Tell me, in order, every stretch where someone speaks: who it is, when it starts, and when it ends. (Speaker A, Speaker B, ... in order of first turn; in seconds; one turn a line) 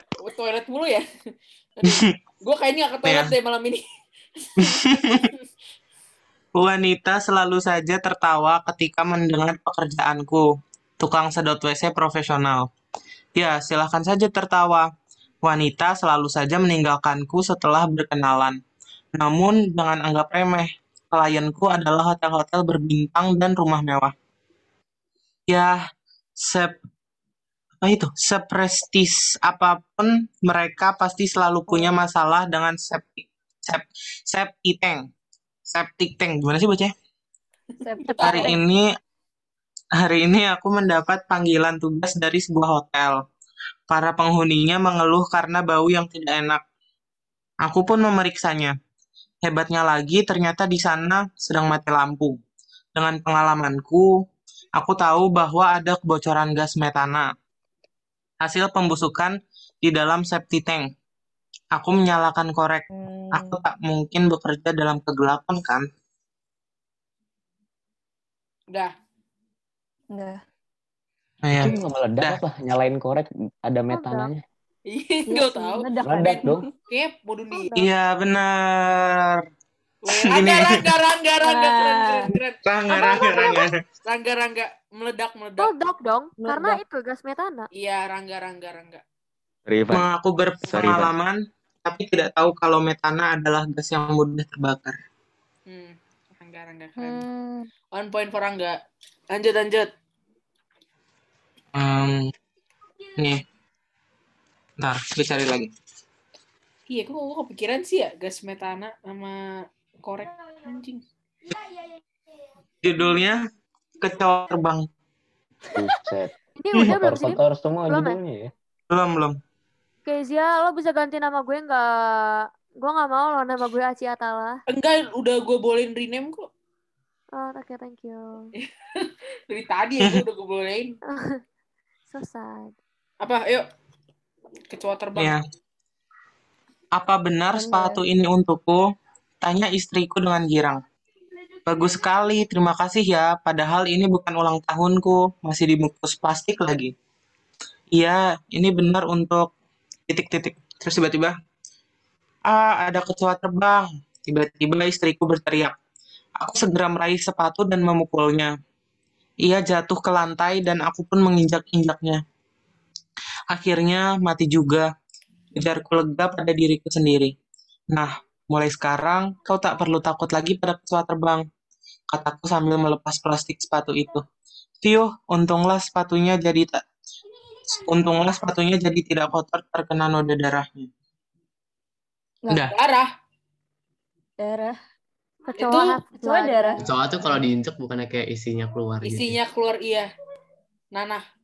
Speaker A: 0.2-1.1
Speaker A: 1.8-3.8
Speaker B: 3.0-3.3
Speaker A: 4.3-5.4
Speaker B: 4.6-5.3
Speaker B: 6.5-10.5
Speaker B: 11.0-12.7
Speaker B: 13.3-14.9
Speaker B: 15.4-18.6
Speaker B: 19.1-24.1
Speaker B: 25.5-25.8
Speaker B: 26.4-26.7
Speaker B: 27.8-35.0
Speaker C: 31.7-31.9
Speaker B: 35.7-36.9
Speaker C: 37.8-38.5
Speaker D: 38.0-38.5
Speaker B: 38.2-38.9
Speaker B: 40.0-43.2
Speaker B: 43.9-46.6
Speaker B: 47.6-48.7
Speaker B: 49.4-52.4
Speaker B: 52.9-54.1
Speaker B: 54.8-57.3
Speaker B: 58.4-60.9
Speaker B: 61.7-65.8
Speaker C: 62.9-63.6
Speaker C: 70.1-70.4
Speaker B: 71.4-72.4
Speaker E: 71.5-74.4
Speaker D: 73.9-74.3
Speaker A: 74.9-75.9
Speaker C: 75.3-76.7
Speaker E: 76.0-76.7
Speaker A: 76.8-77.7
Speaker D: 77.5-77.9
Speaker B: 77.8-79.5
Speaker A: 80.0-85.7
Speaker B: 80.1-80.9
Speaker C: 81.4-82.3
Speaker B: 82.6-83.8
Speaker D: 83.0-83.6
Speaker D: 85.6-87.7
Speaker C: 86.4-86.8
Speaker A: 87.7-89.0
Speaker E: 89.7-90.0
Speaker B: 89.9-95.0
Speaker E: 90.7-91.1
Speaker A: 95.7-97.2
Speaker C: 97.0-97.7
Speaker A: 97.9-98.8
Speaker A: 99.3-99.9
Speaker B: 101.7-102.3
Speaker B: 103.2-103.4
Speaker B: 104.8-105.7
Speaker A: 106.9-111.0
Speaker B: 112.8-113.4
Speaker B: 114.0-114.9
Speaker E: 115.7-118.5
Speaker D: 116.6-118.2
Speaker B: 118.9-119.3
Speaker D: 120.0-124.6
Speaker A: 124.7-126.5
Speaker D: 127.3-128.5
Speaker A: 128.6-131.0
Speaker D: 131.1-131.4
Speaker D: 132.1-132.7
Speaker A: 133.2-133.7
Speaker A: 134.7-135.3
Speaker B: 136.9-138.8
Speaker C: 137.5-138.0
Speaker B: 139.4-140.8
Speaker B: 141.7-146.9
Speaker B: 147.9-149.5
Speaker B: 150.1-151.3
Speaker B: 152.5-155.7
Speaker B: 156.4-158.5
Speaker B: 159.4-162.2
Speaker B: 163.5-164.9
Speaker B: 165.6-167.3
Speaker B: 167.9-171.4
Speaker B: 172.1-174.2
Speaker B: 174.8-176.8
Speaker B: 177.7-180.9
Speaker B: 182.5-182.8
Speaker A: 182.7-183.1
Speaker C: 184.4-184.8
Speaker D: 185.5-186.8
Speaker A: 185.6-186.0
Speaker C: 186.1-186.8
Speaker F: 186.8-189.4
Speaker A: 189.0-190.1
Speaker A: 190.9-191.2